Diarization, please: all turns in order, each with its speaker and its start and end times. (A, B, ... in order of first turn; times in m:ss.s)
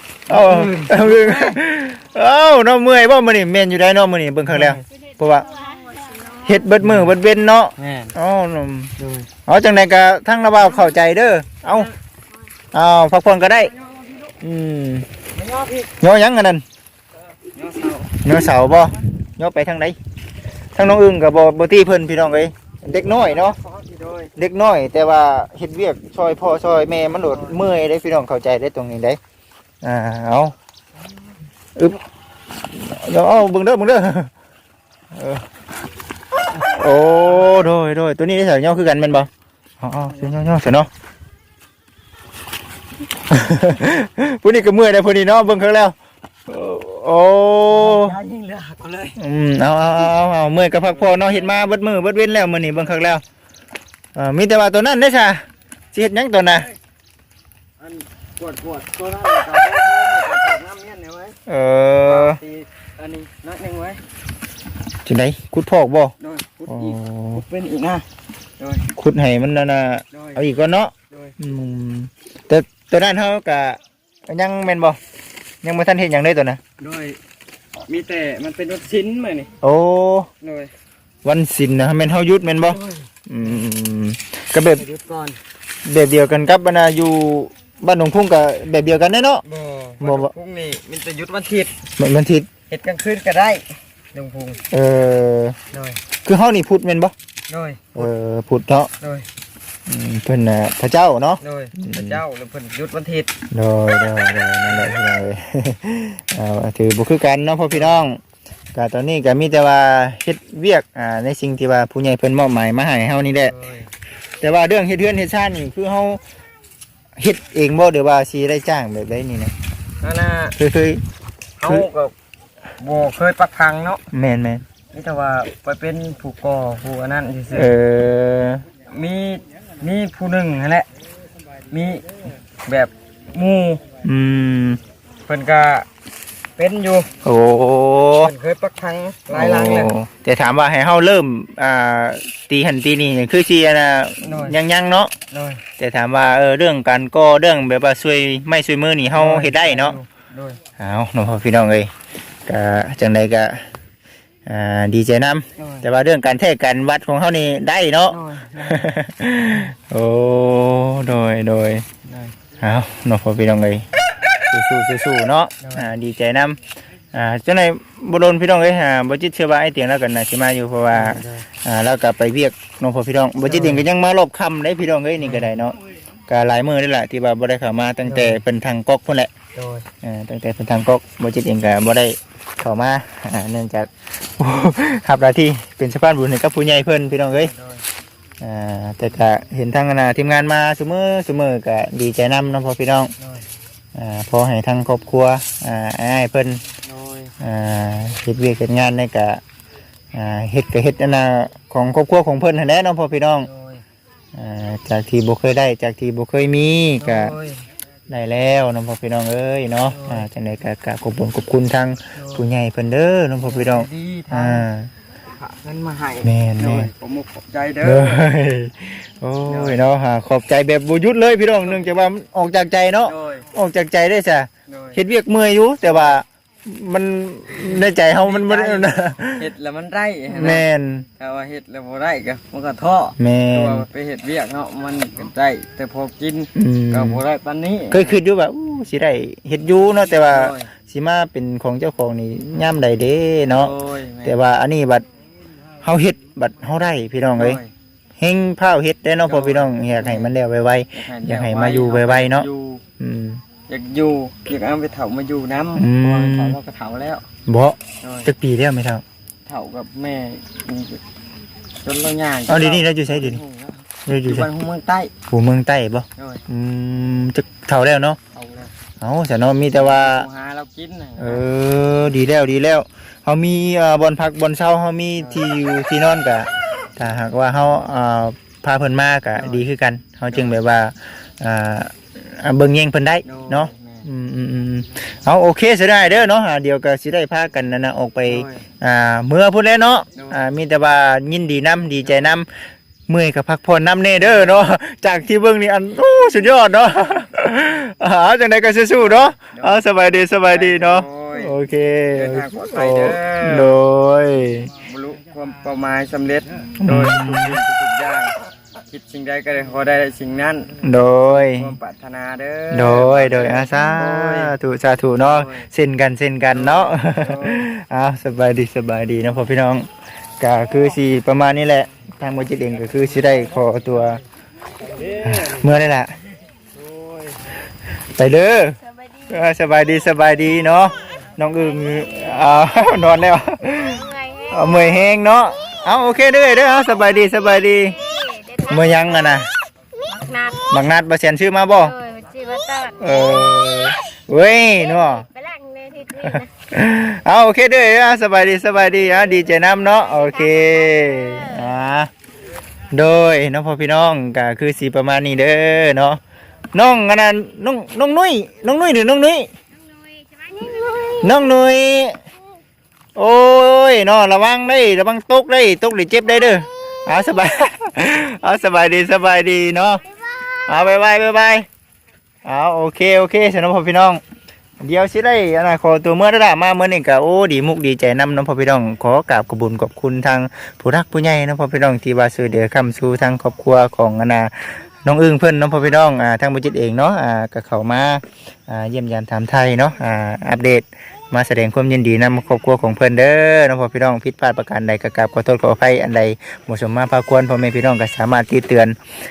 0:00.3-0:05.5 A
0:00.3-0:01.6 B
0:04.4-0:04.8 B
0:05.8-0:06.3 C
0:06.4-0:08.9 A
0:06.8-0:07.1 B
0:07.8-0:08.2 B
0:09.0-0:09.3 B
0:09.4-0:11.9 A
0:12.7-0:13.7 A
0:14.4-0:15.1 A
0:15.3-0:15.9 B
0:16.0-0:16.6 A
0:17.5-0:18.1 B
0:18.2-0:20.0 A
0:20.7-0:23.6 A
0:23.2-0:24.3 B
0:24.4-0:29.2 A
0:27.3-0:27.6 B
0:29.8-0:30.5 A
0:31.8-0:32.0 A
0:32.7-0:34.3 A
0:35.1-0:35.5 A
0:36.6-0:40.9 A
0:43.3-0:46.0 A
0:46.5-0:48.2 A
0:47.7-0:49.2 B
0:49.2-0:53.2 A
0:50.8-0:51.7 B
0:54.1-0:56.7 A
0:57.8-1:01.3 B
1:01.4-1:02.4 A
1:02.0-1:04.0 B
1:05.0-1:06.1 A
1:06.2-1:08.0 B
1:06.7-1:07.4 A
1:08.6-1:08.9 B
1:08.9-1:15.0 A
1:10.1-1:10.4 B
1:11.1-1:11.4 B
1:15.6-1:16.6 A
1:16.8-1:17.2 B
1:17.9-1:19.5 B
1:19.6-1:20.3 A
1:20.4-1:20.7 B
1:21.2-1:24.8 A
1:22.6-1:23.6 B
1:24.7-1:25.4 B
1:25.8-1:29.4 A
1:29.4-1:31.8 B
1:30.0-1:30.3 A
1:32.0-1:32.5 A
1:32.7-1:34.6 B
1:34.7-1:35.6 A
1:35.7-1:36.0 B
1:36.2-1:37.1 A
1:37.5-1:38.1 B
1:37.9-1:38.9 A
1:39.0-1:39.2 B
1:39.9-1:42.2 A
1:41.4-1:43.3 B
1:43.5-1:48.2 A
1:47.7-1:48.0 B
1:48.7-1:53.5 A
1:53.4-1:53.9 B
1:54.4-1:56.2 A
1:57.2-1:59.5 A
2:00.0-2:00.6 B
2:00.6-2:01.0 A
2:01.6-2:02.1 B
2:02.8-2:04.0 B
2:04.1-2:04.6 A
2:04.9-2:07.7 B
2:07.5-2:08.6 A
2:08.9-2:10.9 B
2:11.7-2:12.1 B
2:12.6-2:13.8 B
2:14.0-2:14.8 A
2:15.3-2:15.9 B
2:16.6-2:17.1 B
2:17.2-2:18.3 A
2:18.2-2:19.9 B
2:19.3-2:25.1 A
2:24.2-2:24.6 B
2:25.3-2:25.6 B
2:25.8-2:30.0 A
2:29.1-2:30.6 B
2:30.8-2:31.9 A
2:32.4-2:33.6 A
2:34.4-2:41.8 A
2:35.6-2:35.9 B
2:38.1-2:38.9 B
2:42.0-2:42.3 B
2:42.6-2:43.9 A
2:44.5-2:46.6 A
2:45.6-2:45.9 B
2:47.1-2:55.8 A
2:50.9-2:51.5 B
2:53.4-2:53.8 B
2:55.2-2:55.6 B
2:56.3-2:59.3 A
2:58.0-2:58.4 B
2:59.5-2:59.8 B
3:00.0-3:07.5 A
3:07.3-3:07.8 B
3:08.4-3:13.1 A
3:13.2-3:13.4 B
3:13.9-3:16.6 A
3:16.8-3:17.3 B
3:17.4-3:19.4 A
3:20.1-3:23.5 A
3:23.4-3:23.8 B
3:24.3-3:27.3 A
3:27.0-3:27.6 B
3:28.1-3:34.9 A
3:29.9-3:30.2 B
3:32.1-3:32.4 B
3:33.4-3:34.7 B
3:35.4-3:38.2 B
3:36.2-3:36.9 A
3:37.8-3:49.5 A
3:39.5-3:39.8 B
3:41.6-3:41.9 B
3:43.0-3:43.4 B
3:44.7-3:45.0 B
3:45.8-3:46.2 B
3:47.5-3:50.6 B
3:50.3-3:51.0 A
3:51.2-3:58.2 B
3:53.2-3:53.8 A
3:56.5-3:57.2 A
3:57.9-4:05.0 A
4:00.1-4:00.7 B
4:03.5-4:04.4 B
4:05.8-4:07.6 A
4:07.4-4:07.7 B
4:08.2-4:12.5 A
4:09.2-4:10.3 B
4:10.9-4:12.8 B
4:13.0-4:13.4 A
4:13.7-4:17.2 B
4:15.8-4:16.6 A
4:17.4-4:19.0 A
4:18.0-4:18.3 B
4:19.4-4:21.0 B
4:21.8-4:25.1 B
4:22.5-4:23.4 A
4:24.0-4:24.5 A
4:25.3-4:28.2 A
4:26.2-4:26.4 B
4:28.3-4:28.7 B
4:29.0-4:30.3 A
4:29.7-4:31.4 B
4:31.2-4:52.5 A
4:35.2-4:35.4 B
4:39.4-4:39.6 B
4:40.3-4:40.6 B
4:43.2-4:44.0 B
4:48.2-4:48.6 B
4:50.1-4:50.5 B
4:52.0-4:52.3 B
4:53.1-5:04.7 A
4:54.2-4:54.6 B
4:59.0-4:59.8 B
5:00.4-5:01.6 B
5:02.1-5:03.8 B
5:04.7-5:08.3 B
5:06.8-5:07.6 A
5:08.9-5:14.5 B
5:10.8-5:11.7 A
5:12.7-5:19.9 A
5:15.2-5:15.7 B
5:16.5-5:17.7 B
5:20.4-5:24.2 A
5:25.2-5:26.1 A
5:28.1-5:28.8 A
5:29.3-5:38.0 A
5:31.8-5:32.4 C
5:33.8-5:35.0 C
5:36.4-5:39.4 C
5:38.7-5:39.5 A
5:40.1-5:40.6 C
5:40.7-5:41.9 A
5:41.8-5:43.9 C
5:43.0-5:45.3 A
5:44.8-5:46.5 C
5:46.2-5:52.1 A
5:49.0-5:51.7 C
5:52.9-5:56.2 A
5:56.7-5:59.5 A
6:00.2-6:01.3 C
6:01.2-6:02.2 A
6:03.2-6:10.0 A
6:10.2-6:10.8 C
6:10.7-6:11.7 A
6:12.4-6:14.2 A
6:14.8-6:39.0 A